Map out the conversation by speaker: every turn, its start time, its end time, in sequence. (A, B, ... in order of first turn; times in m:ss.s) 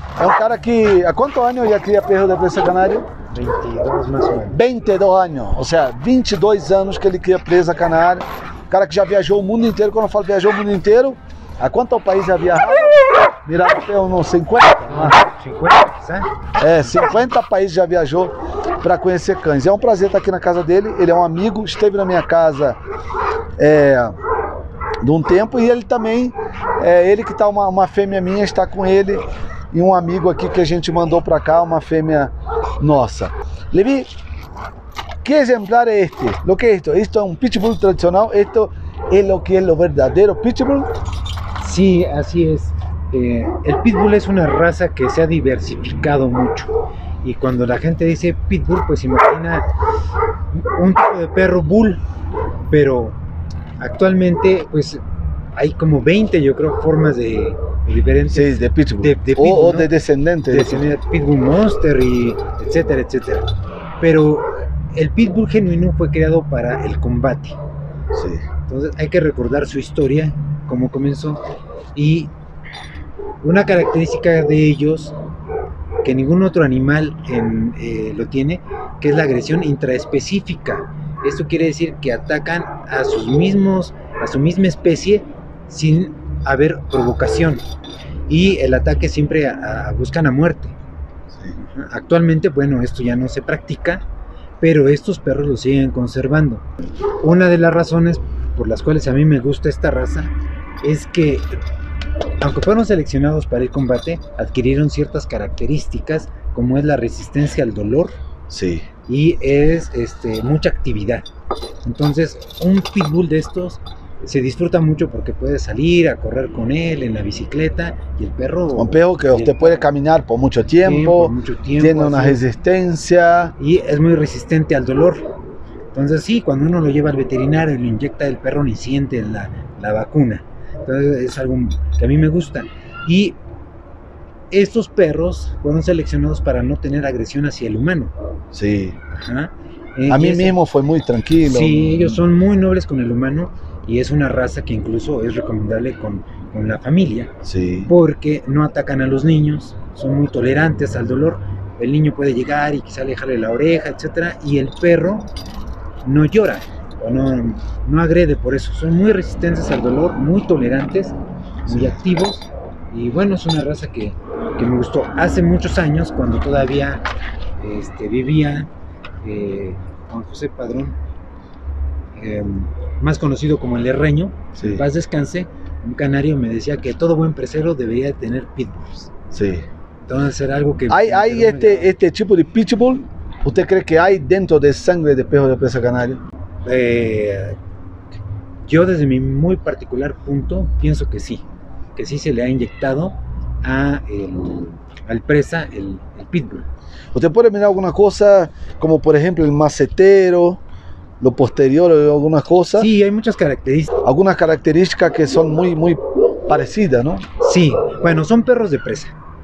0:00.2-0:03.1 A
0:03.3-0:04.6 B
0:04.5-0:15.2 A
0:14.9-0:16.3 B
0:16.6-0:22.8 A
0:23.6-0:24.2 A
0:25.0-0:34.1 A
0:35.2-0:40.9 A
0:41.6-0:49.6 B
0:50.5-0:52.0 B
0:52.7-0:53.2 B
0:53.8-0:55.0 B
0:55.6-0:59.9 B
0:58.3-1:00.9 A
1:00.4-1:03.5 B
1:04.0-1:07.6 B
1:08.1-1:08.4 A
1:08.7-1:11.4 B
1:11.9-1:12.3 B
1:13.4-1:15.2 B
1:16.0-1:27.6 B
1:28.3-1:30.7 B
1:31.5-1:34.0 B
1:34.6-1:36.6 B
1:37.2-1:41.6 B
1:42.4-1:48.1 B
1:48.5-1:48.8 A
1:49.1-1:51.2 B
1:51.8-1:59.8 B
1:58.7-2:03.5 A
2:00.8-2:02.5 B
2:03.6-2:05.3 B
2:05.9-2:13.4 B
2:14.5-2:18.1 B
2:18.5-2:19.0 A
2:19.1-2:20.6 B
2:20.1-2:22.2 A
2:21.4-2:27.3 B
2:27.4-2:27.9 A
2:27.8-2:35.3 B
2:36.0-2:47.0 B
2:41.6-2:42.0 A
2:47.6-2:48.7 B
2:49.2-2:51.0 B
2:52.2-2:59.1 B
2:54.6-2:54.9 A
2:59.3-2:59.6 A
3:00.1-3:01.9 B
3:00.9-3:06.2 A
3:06.6-3:07.6 B
3:08.6-3:11.4 B
3:12.0-3:16.6 B
3:17.1-3:20.6 A
3:21.2-3:22.9 A
3:22.7-3:23.9 B
3:24.0-3:27.2 A
3:27.4-3:29.1 B